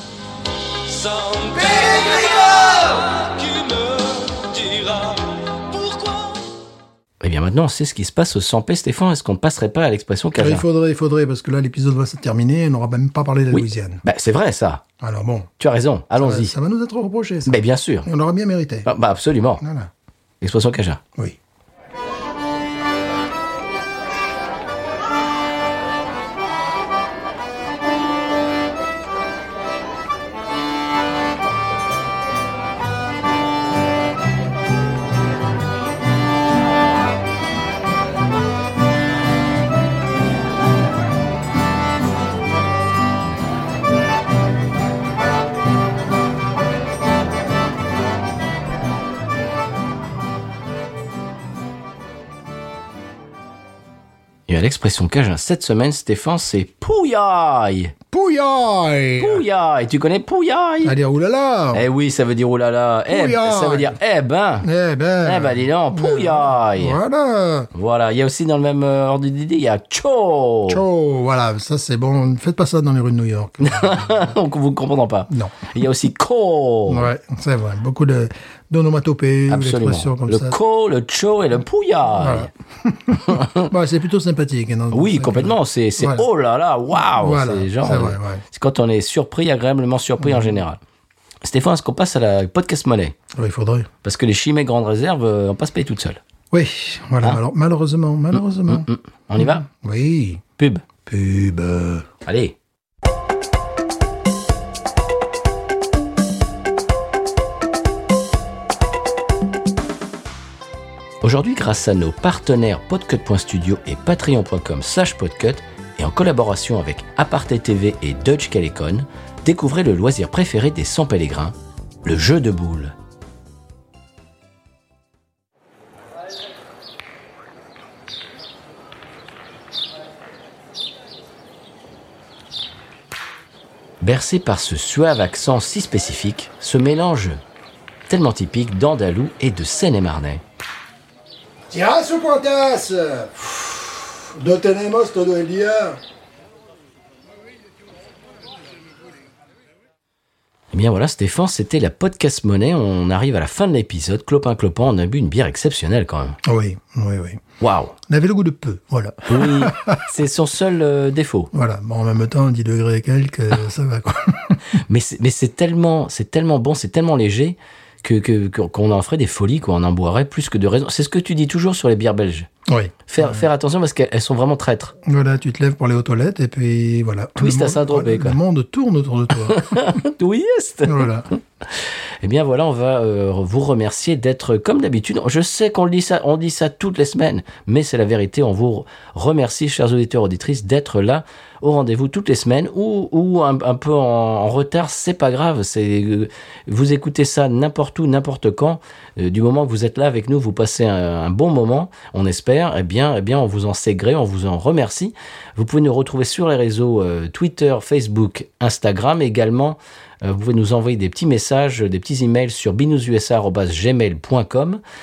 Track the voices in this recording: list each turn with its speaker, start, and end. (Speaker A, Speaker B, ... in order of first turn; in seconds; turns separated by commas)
Speaker A: 1.0-6.2, Speaker B: 4.5-5.1, Speaker B: 7.2-10.6, Speaker C: 10.4-14.0, Speaker B: 13.5-14.8, Speaker C: 15.0-15.5, Speaker B: 15.6-16.5, Speaker C: 16.2-18.9, Speaker B: 17.4-18.1, Speaker B: 18.9-19.6, Speaker C: 19.6-19.9, Speaker B: 20.4-21.0, Speaker B: 54.5-57.9, Speaker C: 58.1-59.5, Speaker B: 59.2-61.0, Speaker C: 60.8-61.8, Speaker B: 61.7-64.7, Speaker C: 63.1-64.0, Speaker C: 64.6-67.7, Speaker B: 65.2-67.0, Speaker B: 67.7-70.8, Speaker C: 70.7-74.3, Speaker B: 73.6-77.1, Speaker C: 75.3-75.5, Speaker C: 76.9-80.6, Speaker B: 79.5-82.5, Speaker C: 82.2-86.2, Speaker B: 83.1-83.7, Speaker B: 84.9-90.8, Speaker C: 87.1-88.4, Speaker C: 90.2-90.6, Speaker B: 91.4-93.2, Speaker C: 93.3-93.9, Speaker B: 94.0-96.2, Speaker C: 96.5-100.4, Speaker B: 98.4-99.7, Speaker B: 100.6-100.8, Speaker C: 101.0-102.1, Speaker B: 102.2-102.6, Speaker B: 111.2-123.0, Speaker B: 134.0-137.4, Speaker B: 138.1-140.4, Speaker C: 141.7-146.0, Speaker B: 150.7-156.4, Speaker C: 156.4-157.4, Speaker B: 157.6-157.9, Speaker C: 158.1-160.0, Speaker B: 159.3-161.5, Speaker C: 161.5-164.6, Speaker B: 164.7-172.5, Speaker C: 172.7-173.5, Speaker B: 173.1-174.9, Speaker C: 175.0-179.7, Speaker B: 177.4-178.4, Speaker B: 179.5-181.1, Speaker C: 180.8-181.3, Speaker B: 181.7-214.8